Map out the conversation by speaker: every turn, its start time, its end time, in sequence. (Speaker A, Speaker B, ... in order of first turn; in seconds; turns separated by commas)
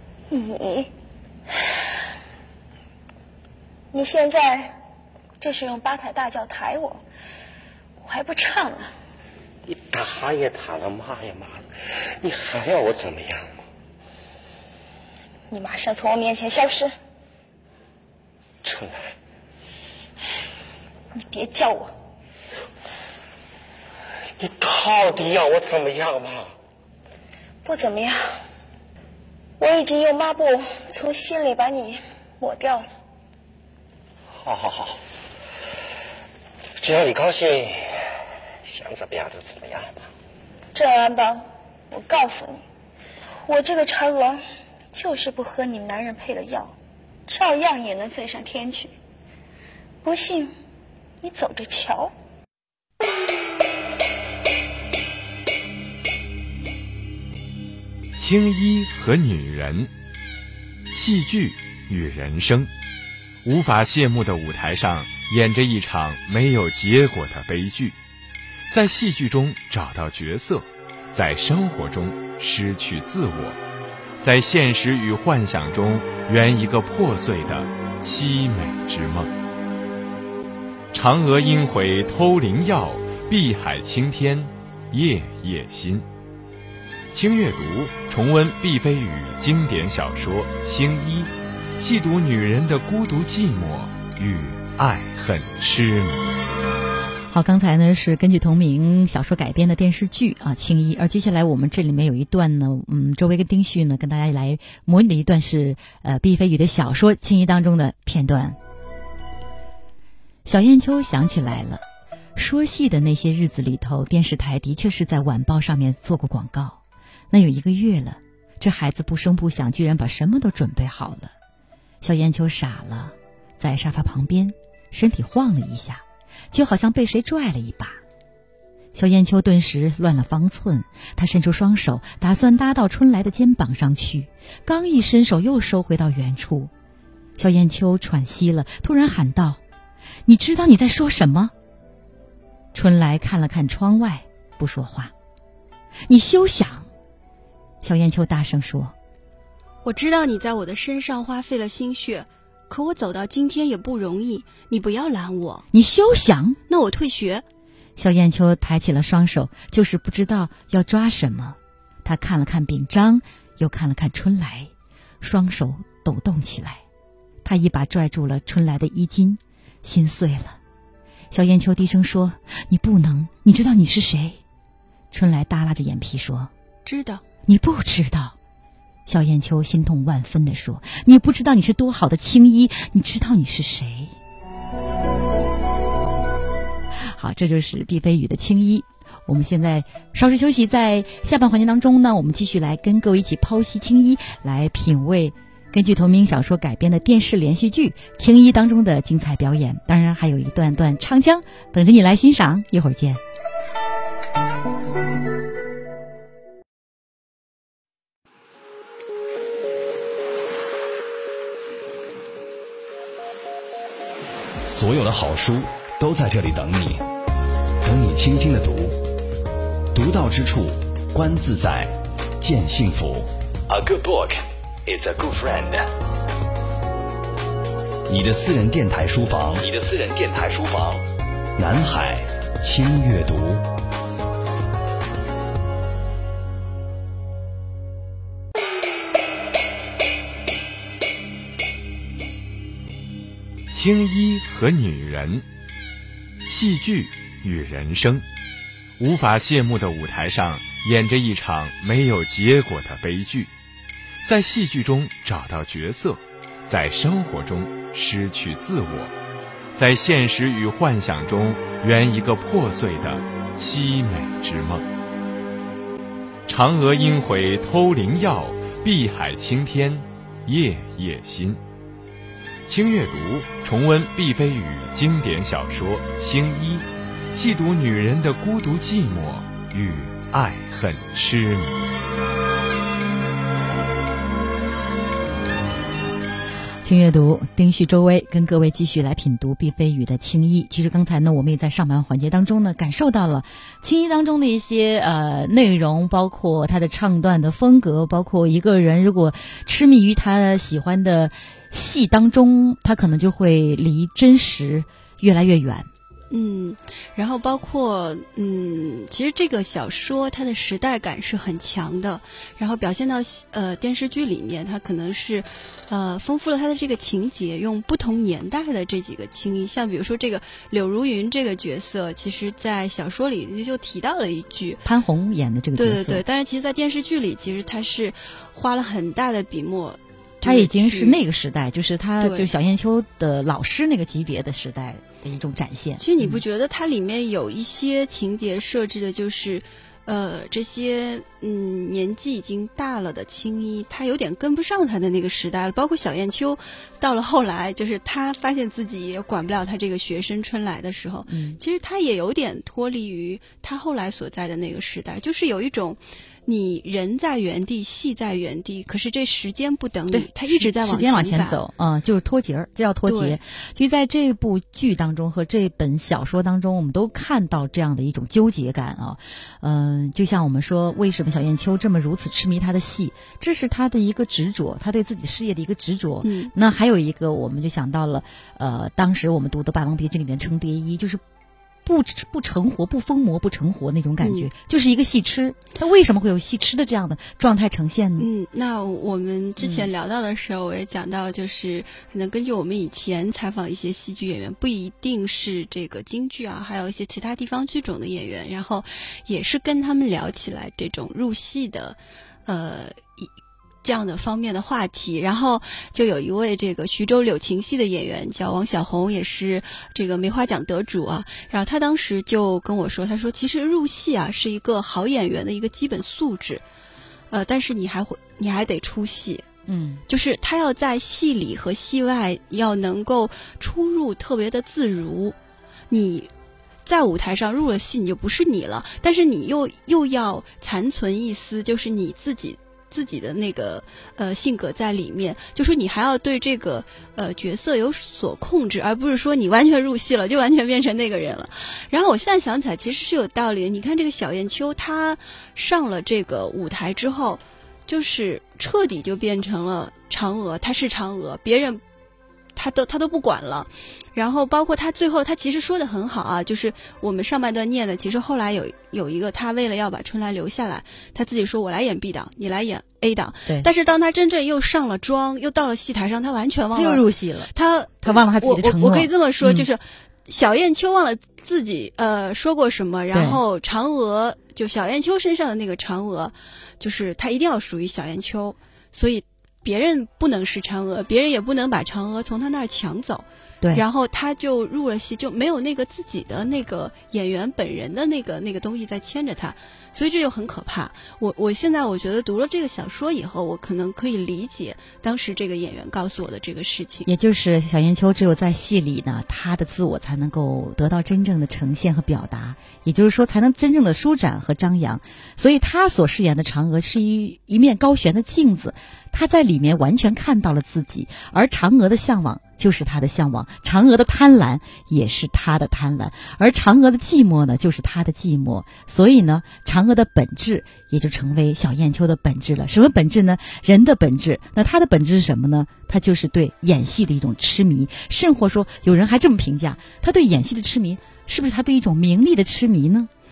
Speaker A: 0.3-0.9, Speaker A: 3.9-4.8, Speaker A: 5.4-7.0, Speaker A: 8.0-8.9, Speaker B: 9.7-13.5, Speaker A: 15.5-16.9, Speaker B: 18.6-19.1, Speaker A: 21.1-21.9, Speaker B: 24.4-26.5, Speaker A: 27.6-28.4, Speaker A: 29.6-32.9, Speaker B: 34.3-35.0, Speaker B: 36.8-38.0, Speaker B: 38.6-40.1, Speaker A: 40.7-42.6, Speaker A: 43.5-44.4, Speaker A: 44.9-46.8, Speaker A: 47.3-48.9, Speaker A: 50.0-50.5, Speaker A: 51.2-52.1, Speaker C: 58.2-59.9, Speaker C: 60.9-62.7, Speaker C: 63.4-68.0, Speaker C: 68.7-73.6, Speaker C: 74.2-79.3, Speaker C: 80.9-86.1, Speaker C: 87.1-96.2, Speaker D: 97.3-108.6, Speaker D: 110.5-111.8, Speaker D: 112.4-116.8, Speaker D: 117.3-121.3, Speaker D: 122.0-128.0, Speaker D: 128.9-136.7, Speaker D: 137.4-139.6, Speaker D: 140.3-141.5, Speaker D: 142.7-145.1, Speaker D: 146.1-146.9, Speaker D: 147.8-148.9, Speaker E: 149.8-155.7, Speaker D: 155.7-156.6, Speaker E: 156.7-157.4, Speaker D: 158.0-164.7, Speaker D: 165.2-166.8, Speaker D: 167.4-170.6, Speaker D: 171.3-174.4, Speaker D: 175.1-176.5, Speaker E: 176.8-177.2, Speaker D: 177.5-178.3, Speaker D: 179.1-184.1, Speaker D: 187.0-203.2, Speaker F: 214.7-217.1, Speaker F: 217.8-219.0, Speaker F: 219.9-225.9, Speaker F: 228.1-231.1, Speaker F: 231.6-233.7, Speaker C: 243.7-245.4, Speaker C: 246.4-248.2, Speaker C: 249.0-253.5, Speaker C: 254.2-259.1, Speaker C: 259.7-264.9, Speaker C: 266.5-271.6, Speaker C: 272.7-281.8, Speaker D: 286.8-305.9, Speaker E: 306.3-324.8, Speaker D: 324.9-326.2, Speaker E: 325.8-331.2, Speaker D: 330.4-336.4, Speaker E: 332.2-332.5, Speaker E: 336.0-361.6, Speaker D: 351.3-351.6, Speaker D: 360.1-381.2, Speaker E: 363.1-363.4, Speaker E: 376.2-376.5, Speaker D: 381.9-388.3, Speaker E: 384.2-384.5, Speaker E: 388.2-403.3, Speaker D: 389.6-389.9, Speaker E: 403.8-416.6, Speaker E: 417.3-419.5, Speaker D: 419.7-420.0, Speaker E: 420.1-425.4, Speaker E: 425.9-426.3, Speaker E: 426.9-451.8, Speaker E: 452.6-497.1, Speaker D: 466.8-467.5, Speaker D: 468.0-469.7, Speaker D: 473.1-473.4, Speaker D: 497.1-533.1